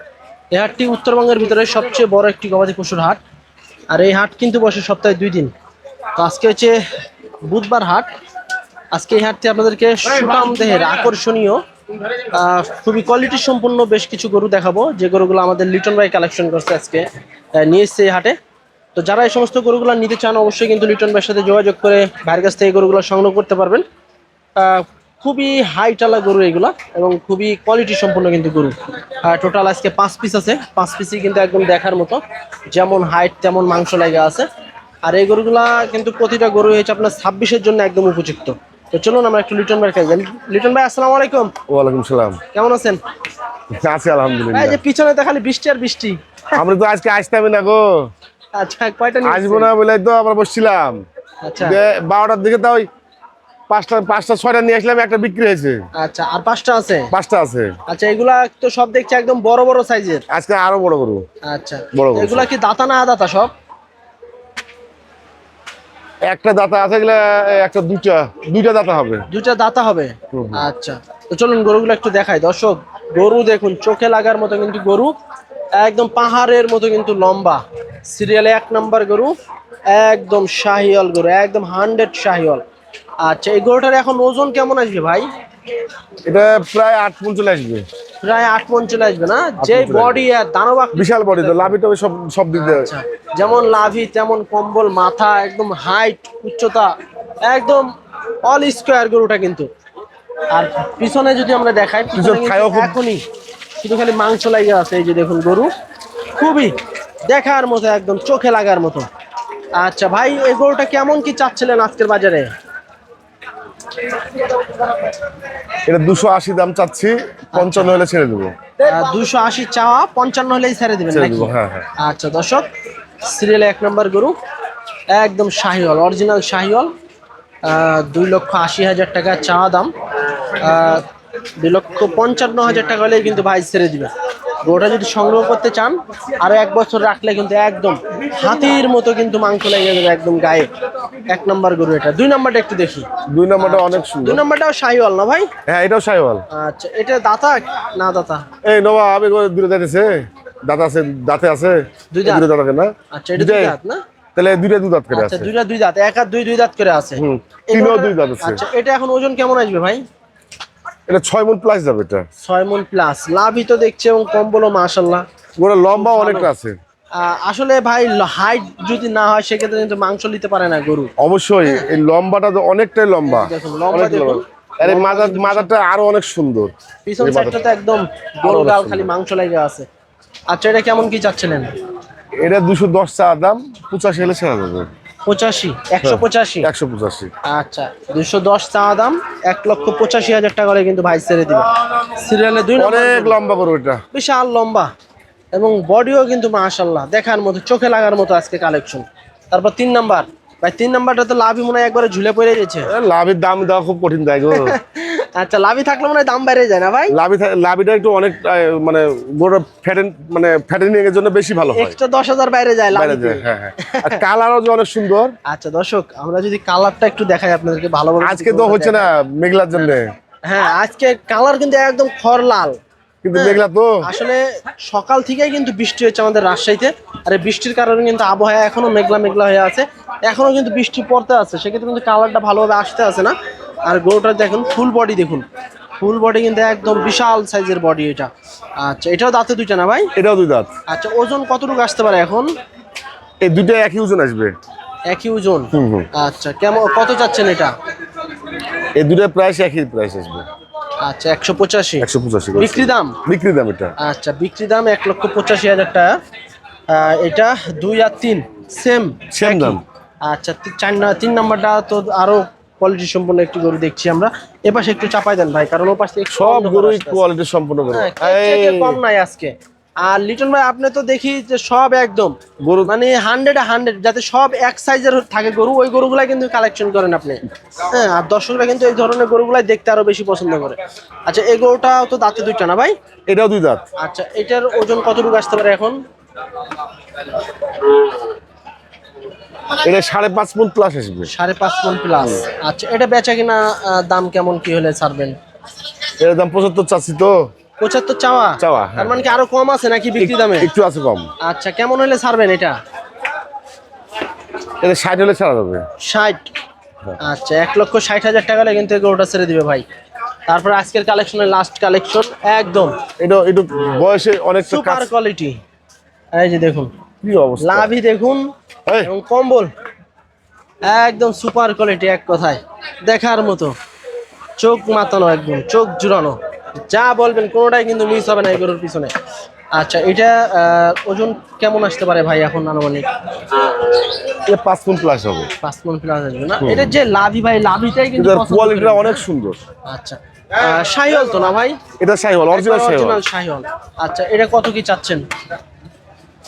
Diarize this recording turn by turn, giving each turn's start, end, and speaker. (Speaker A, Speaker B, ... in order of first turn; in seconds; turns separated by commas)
Speaker A: 0.5-3.2, Speaker A: 3.9-5.5, Speaker A: 6.1-6.8, Speaker A: 7.4-8.1, Speaker A: 8.9-11.6, Speaker A: 12.2-18.4, Speaker A: 18.9-23.8, Speaker A: 24.6-34.5, Speaker A: 35.0-41.5, Speaker B: 41.7-42.4, Speaker A: 42.5-43.0, Speaker B: 43.7-44.8, Speaker A: 44.5-46.6, Speaker B: 46.5-48.1, Speaker A: 48.6-49.7, Speaker B: 49.2-51.0, Speaker A: 51.4-51.8, Speaker B: 51.6-52.9, Speaker B: 53.7-55.8, Speaker A: 56.0-57.1, Speaker B: 57.1-57.7, Speaker A: 57.9-60.2, Speaker B: 60.3-61.2, Speaker A: 61.4-63.5, Speaker B: 61.9-62.5, Speaker B: 66.3-69.2, Speaker A: 69.3-75.1, Speaker B: 70.3-70.6, Speaker A: 75.8-79.3, Speaker A: 79.9-82.6, Speaker A: 83.2-85.3, Speaker B: 86.2-87.9, Speaker A: 88.2-91.8, Speaker B: 89.6-90.2, Speaker B: 90.9-92.9, Speaker A: 92.5-96.9, Speaker A: 97.4-97.9, Speaker A: 98.4-99.7, Speaker A: 100.5-103.2, Speaker B: 102.1-102.9, Speaker A: 103.8-105.7, Speaker A: 106.4-106.7, Speaker A: 107.2-109.1, Speaker A: 109.8-112.5, Speaker B: 115.8-118.5, Speaker A: 117.5-118.0, Speaker A: 118.8-122.7, Speaker B: 121.1-121.9, Speaker A: 123.2-124.4, Speaker A: 125.1-126.9, Speaker A: 127.6-129.9, Speaker A: 130.6-131.1, Speaker A: 131.6-140.7, Speaker A: 141.3-143.1, Speaker B: 143.2-144.4, Speaker A: 143.6-145.5, Speaker B: 145.7-146.4, Speaker A: 146.5-148.5, Speaker B: 148.6-153.7, Speaker A: 152.1-152.5, Speaker A: 153.1-154.0, Speaker B: 154.4-155.5, Speaker A: 155.1-160.0, Speaker B: 157.2-158.6, Speaker B: 161.1-162.2, Speaker A: 162.4-165.2, Speaker B: 165.6-166.8, Speaker A: 165.9-166.5, Speaker A: 167.2-171.1, Speaker B: 171.2-177.6, Speaker A: 173.3-175.7, Speaker A: 177.1-179.8, Speaker B: 178.4-179.1, Speaker A: 180.5-181.7, Speaker B: 182.4-184.9, Speaker A: 185.3-186.7, Speaker B: 186.0-187.3, Speaker A: 187.5-193.4, Speaker B: 192.8-194.0, Speaker A: 194.1-194.9, Speaker A: 195.5-202.9, Speaker B: 202.9-204.8, Speaker A: 204.5-207.1, Speaker B: 207.1-211.9, Speaker A: 211.7-214.2, Speaker B: 212.9-215.3, Speaker A: 215.4-219.1, Speaker B: 218.2-220.1, Speaker A: 219.7-222.8, Speaker B: 223.2-224.0, Speaker A: 223.3-235.4, Speaker A: 236.0-240.1, Speaker B: 240.2-240.7, Speaker A: 240.9-242.5, Speaker B: 243.4-244.6, Speaker A: 245.1-247.8, Speaker B: 245.7-246.1, Speaker B: 248.9-250.4, Speaker A: 251.0-253.2, Speaker B: 252.0-253.9, Speaker A: 254.0-256.1, Speaker A: 256.9-267.2, Speaker B: 259.3-259.8, Speaker B: 266.3-269.0, Speaker A: 267.9-282.9, Speaker B: 272.6-272.9, Speaker B: 283.3-283.8, Speaker A: 284.0-286.0, Speaker B: 289.8-291.3, Speaker A: 291.3-295.4, Speaker B: 296.2-297.4, Speaker A: 297.8-300.7, Speaker B: 298.6-299.2, Speaker B: 300.2-301.3, Speaker A: 301.4-302.8, Speaker B: 304.8-305.8, Speaker A: 306.0-306.5, Speaker A: 307.2-309.8, Speaker A: 310.5-313.0, Speaker B: 313.2-315.1, Speaker A: 314.6-315.6, Speaker A: 316.3-316.9, Speaker B: 317.2-317.9, Speaker A: 317.6-318.5, Speaker A: 319.0-319.7, Speaker A: 320.8-323.7, Speaker A: 324.6-329.1, Speaker A: 329.7-333.0, Speaker B: 334.2-335.5, Speaker A: 335.6-339.2, Speaker B: 336.6-337.0, Speaker B: 338.1-339.6, Speaker A: 339.9-341.8, Speaker B: 342.0-343.2, Speaker A: 342.5-345.2